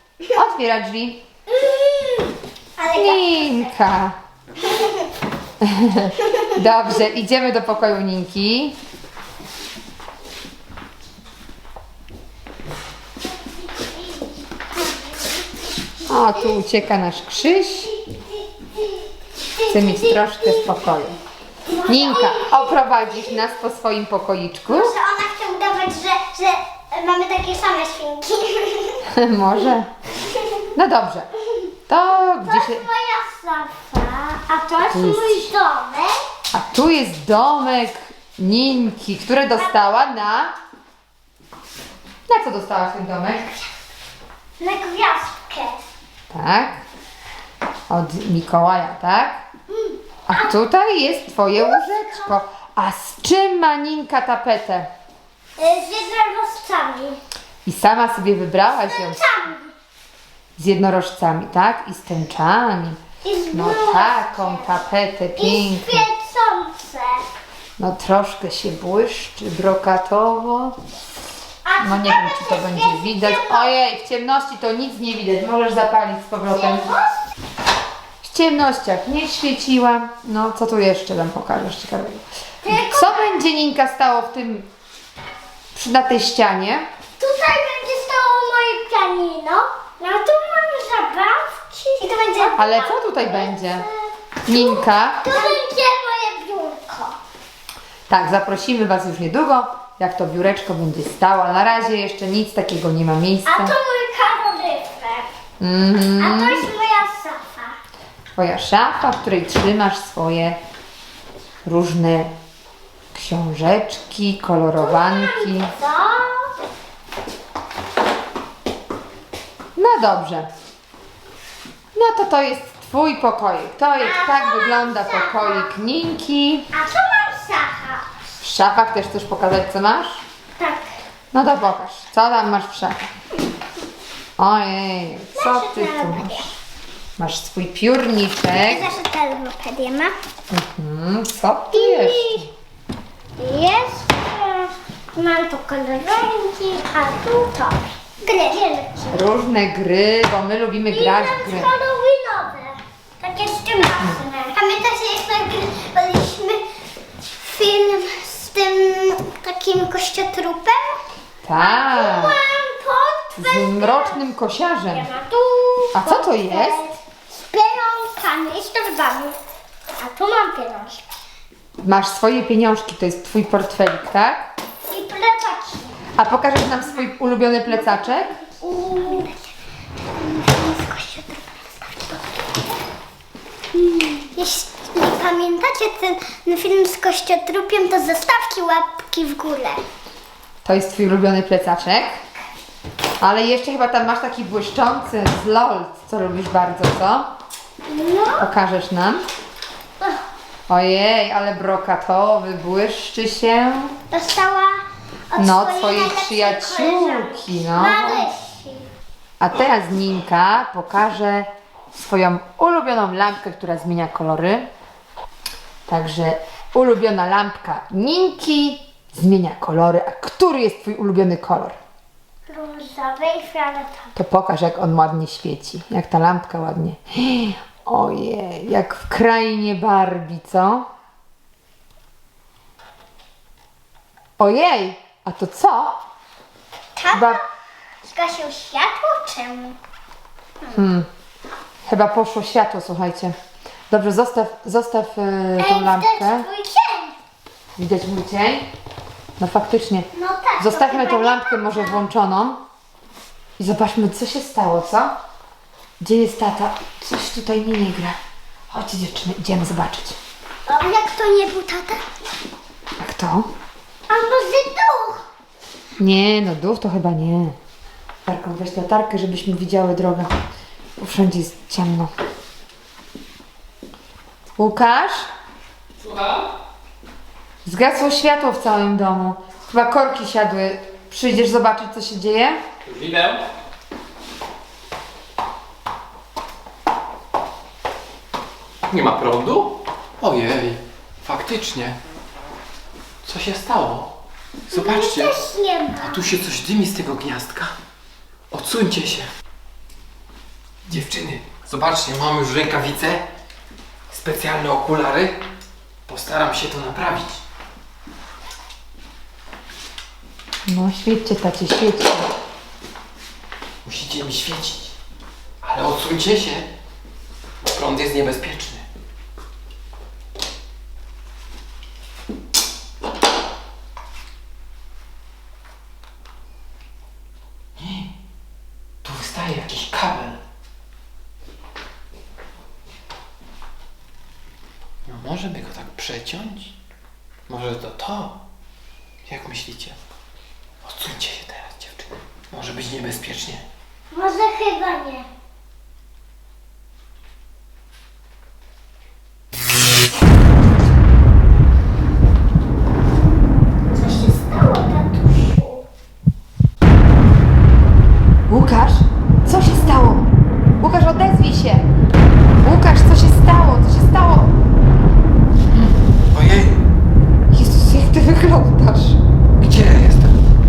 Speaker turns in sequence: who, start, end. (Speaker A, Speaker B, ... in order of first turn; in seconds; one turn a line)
Speaker A: 0.3-1.2
Speaker B: 1.5-3.7
Speaker A: 2.9-4.2
Speaker A: 5.6-8.8
Speaker B: 13.7-14.3
Speaker A: 16.1-17.9
Speaker B: 16.3-16.6
Speaker B: 17.6-20.7
Speaker A: 19.7-21.2
Speaker B: 21.7-23.2
Speaker A: 21.9-24.9
Speaker B: 24.7-29.0
Speaker A: 29.1-29.9
Speaker A: 30.8-31.3
Speaker A: 31.9-32.9
Speaker B: 32.4-36.1
Speaker A: 34.9-35.5
Speaker A: 36.5-40.5
Speaker A: 42.3-43.5
Speaker B: 44.6-45.8
Speaker A: 46.3-46.8
Speaker A: 47.9-49.4
Speaker B: 49.7-50.5
Speaker A: 50.3-54.9
Speaker B: 51.6-52.3
Speaker B: 55.6-57.2
Speaker A: 57.7-59.3
Speaker B: 58.7-59.7
Speaker A: 60.6-63.0
Speaker B: 63.2-64.8
Speaker A: 63.5-66.1
Speaker B: 65.4-67.3
Speaker A: 67.8-70.8
Speaker B: 71.7-73.7
Speaker A: 71.8-76.9
Speaker B: 76.5-77.2
Speaker A: 78.2-84.7
Speaker B: 82.6-83.3
Speaker A: 85.7-86.9
Speaker B: 87.2-97.2
Speaker A: 92.6-93.9
Speaker A: 94.5-95.5
Speaker A: 98.1-103.8
Speaker B: 103.5-105.3
Speaker A: 105.6-106.7
Speaker B: 106.2-107.8
Speaker A: 108.3-110.6
Speaker A: 111.7-112.3
Speaker A: 113.1-115.7
Speaker B: 114.8-116.5
Speaker A: 119.8-120.5
Speaker A: 122.0-126.7
Speaker B: 124.0-125.7
Speaker B: 126.7-128.1
Speaker A: 128.4-130.2
Speaker B: 130.6-131.0
Speaker A: 131.3-133.1
Speaker A: 134.4-136.4
Speaker B: 135.3-136.5
Speaker A: 137.2-138.9
Speaker B: 138.6-140.1
Speaker A: 140.5-142.5
Speaker B: 141.7-142.5
Speaker B: 143.4-149.2
Speaker A: 149.1-151.8
Speaker B: 150.9-156.6
Speaker B: 157.4-161.0
Speaker A: 161.4-162.4
Speaker B: 161.6-164.3
Speaker A: 163.4-165.1
Speaker B: 164.9-169.4
Speaker A: 165.9-166.8
Speaker B: 170.0-171.0
Speaker A: 171.8-174.5
Speaker B: 174.9-176.0
Speaker A: 176.2-178.4
Speaker B: 178.6-179.5
Speaker B: 180.2-182.2
Speaker B: 183.8-189.8
Speaker A: 190.6-192.2
Speaker A: 193.2-197.3
Speaker B: 197.9-198.5
Speaker A: 198.4-199.2
Speaker A: 200.7-203.9
Speaker B: 204.1-208.8
Speaker A: 205.4-208.3
Speaker A: 209.4-214.7
Speaker A: 215.9-221.8
Speaker B: 222.5-224.1
Speaker A: 224.2-230.9
Speaker A: 234.4-236.0
Speaker B: 237.0-237.4
Speaker A: 237.1-237.4
Speaker B: 238.0-239.8
Speaker A: 240.7-241.1
Speaker A: 241.9-243.3
Speaker A: 243.9-246.5
Speaker B: 245.6-247.2
Speaker A: 247.8-248.7
Speaker A: 249.4-250.1
Speaker B: 250.1-252.0
Speaker A: 250.6-252.6
Speaker A: 253.6-255.1
Speaker A: 256.0-258.2
Speaker A: 258.7-260.2
Speaker B: 260.7-262.0
Speaker A: 263.0-263.5
Speaker B: 264.1-265.2
Speaker A: 266.0-267.6
Speaker A: 268.2-270.3
Speaker A: 271.0-272.1
Speaker A: 274.6-275.3
Speaker C: 276.0-276.5
Speaker A: 277.6-282.6
Speaker C: 282.9-283.4
Speaker C: 288.9-292.0
Speaker C: 293.2-294.1
Speaker C: 294.7-295.4
Speaker B: 294.7-296.2
Speaker C: 296.0-297.8
Speaker C: 298.5-299.3
Speaker C: 300.9-303.3
Speaker C: 304.1-305.4
Speaker C: 306.1-307.4
Speaker A: 310.7-312.3
Speaker C: 313.9-314.9
Speaker C: 315.6-316.7
Speaker C: 317.6-318.8
Speaker C: 327.8-328.1
Speaker C: 329.0-330.4
Speaker C: 335.1-336.8
Speaker C: 337.5-338.4
Speaker C: 339.3-340.0
Speaker C: 340.8-343.6
Speaker B: 344.1-345.3
Speaker B: 353.9-355.8
Speaker A: 358.5-360.3
Speaker A: 360.8-361.9
Speaker A: 362.6-364.6
Speaker C: 365.7-366.9
Speaker A: 367.5-369.2
Speaker C: 369.6-370.4